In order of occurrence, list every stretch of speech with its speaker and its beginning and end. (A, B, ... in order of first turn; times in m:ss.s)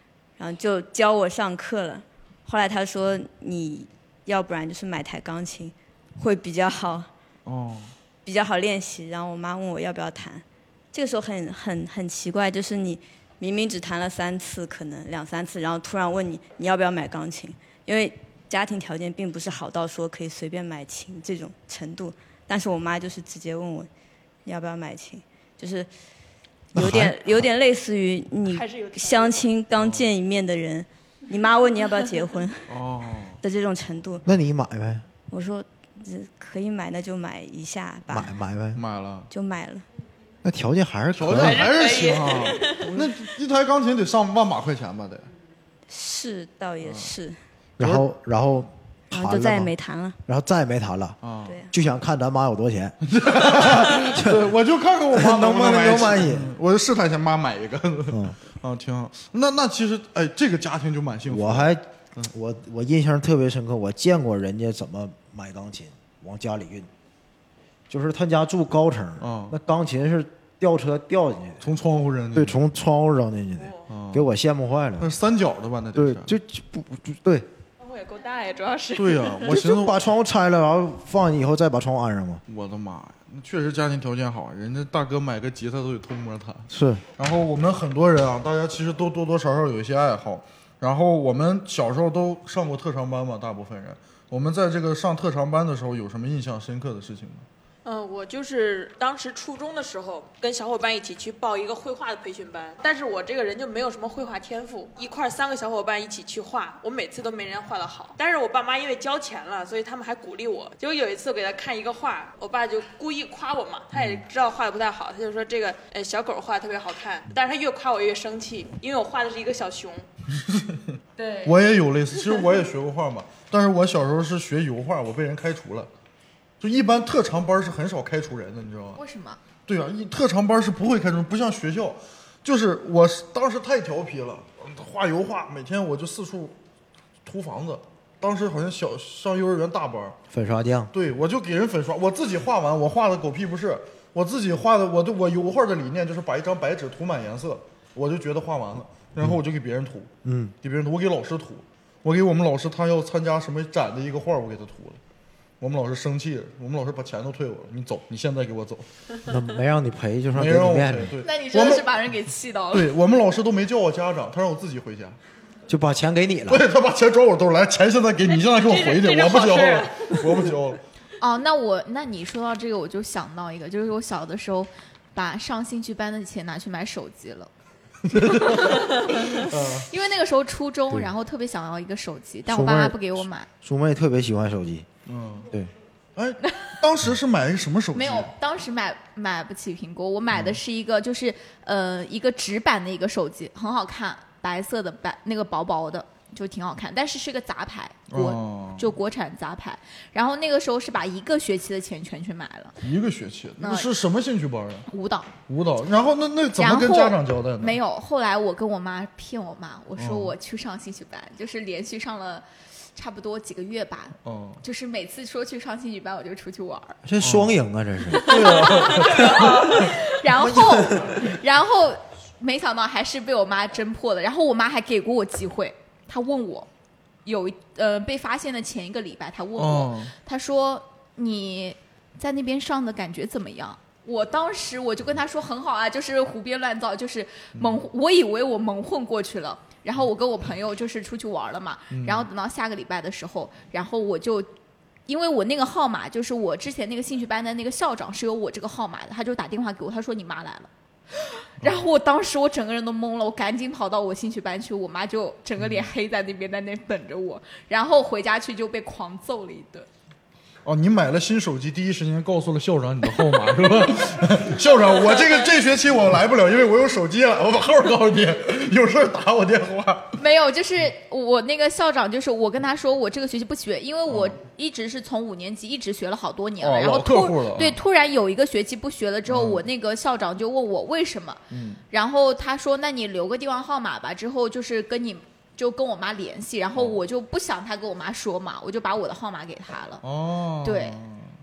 0:00.4-0:07.1 A
0:07.5-0:07.9 B
0:08.2-0:23.9 A
0:24.4-0:25.9 A
0:26.7-0:27.4 C
0:26.7-0:32.7 A
0:28.5-0:29.5 D
0:29.8-0:30.1 B
0:32.7-0:33.4 B
0:33.4-0:34.3 A
0:34.2-0:35.0 C
0:35.3-0:38.4 A
0:38.1-0:38.8 C
0:38.7-0:39.3 B
0:39.3-0:39.8 A
0:40.4-0:41.8 C
0:41.2-0:45.3 B
0:41.3-0:42.8 D
0:45.9-0:47.4 A
0:46.8-0:47.1 B
0:47.8-0:49.7 C
0:47.8-0:48.1 B
0:49.1-0:50.2 A
0:50.3-0:51.2 C
0:51.2-0:51.6 B
0:51.4-0:51.7 A
0:51.7-0:54.5 C
0:53.1-1:02.3 B
0:55.1-0:56.5 C
0:58.1-0:58.4 C
1:01.3-1:06.9 C
1:07.9-1:11.6 C
1:09.2-1:09.6 B
1:11.6-1:12.6 B
1:12.3-1:15.1 C
1:13.6-1:13.9 D
1:13.9-1:14.3 B
1:15.0-1:16.3 B
1:16.0-1:17.5 C
1:17.8-1:19.6 D
1:19.0-1:20.0 B
1:19.4-1:22.4 C
1:22.5-1:37.5 B
1:26.7-1:27.0 C
1:37.8-2:00.1 D
1:53.9-1:54.2 B
2:00.5-2:00.8 B
2:01.2-2:01.6 D
2:01.4-2:05.9 B
2:06.6-2:09.0 B
2:09.0-2:09.4 E
2:09.7-2:16.5 B
2:17.2-2:20.2 B
2:20.3-2:20.9 C
2:20.9-2:30.1 B
2:30.2-2:30.5 C
2:30.6-2:35.0 B
2:35.6-2:38.8 B
2:39.3-2:41.1 C
2:40.3-2:41.9 B
2:41.2-2:42.9 E
2:42.7-2:45.2 B
2:45.7-2:46.7 C
2:46.5-2:50.8 B
2:48.3-2:50.2 D
2:51.2-2:57.5 E
2:58.1-2:59.8 B
2:59.9-3:03.5 E
3:02.5-3:04.9 C
3:05.1-3:05.5 B
3:06.2-3:08.3 B
3:07.9-3:22.8 E
3:18.1-3:18.9 B
3:22.8-3:24.9 B
3:23.6-3:23.9 E
3:24.9-3:25.3 E
3:25.5-3:27.8 B
3:26.6-3:37.0 E
3:30.0-3:30.3 B
3:34.2-3:34.6 B
3:37.0-3:39.5 C
3:37.2-3:37.6 B
3:38.2-3:39.9 B
3:38.9-3:46.7 E
3:40.4-3:41.2 C
3:47.2-4:04.5 E
3:49.6-3:50.1 B
4:01.9-4:02.3 B
4:05.1-4:19.9 E
4:20.6-4:30.2 B
4:30.2-4:50.0 E
4:34.1-4:34.4 B
4:36.6-4:37.8 B
4:39.3-4:39.6 B
4:41.5-4:41.8 B
4:50.0-4:51.3 B
4:50.6-4:51.0 E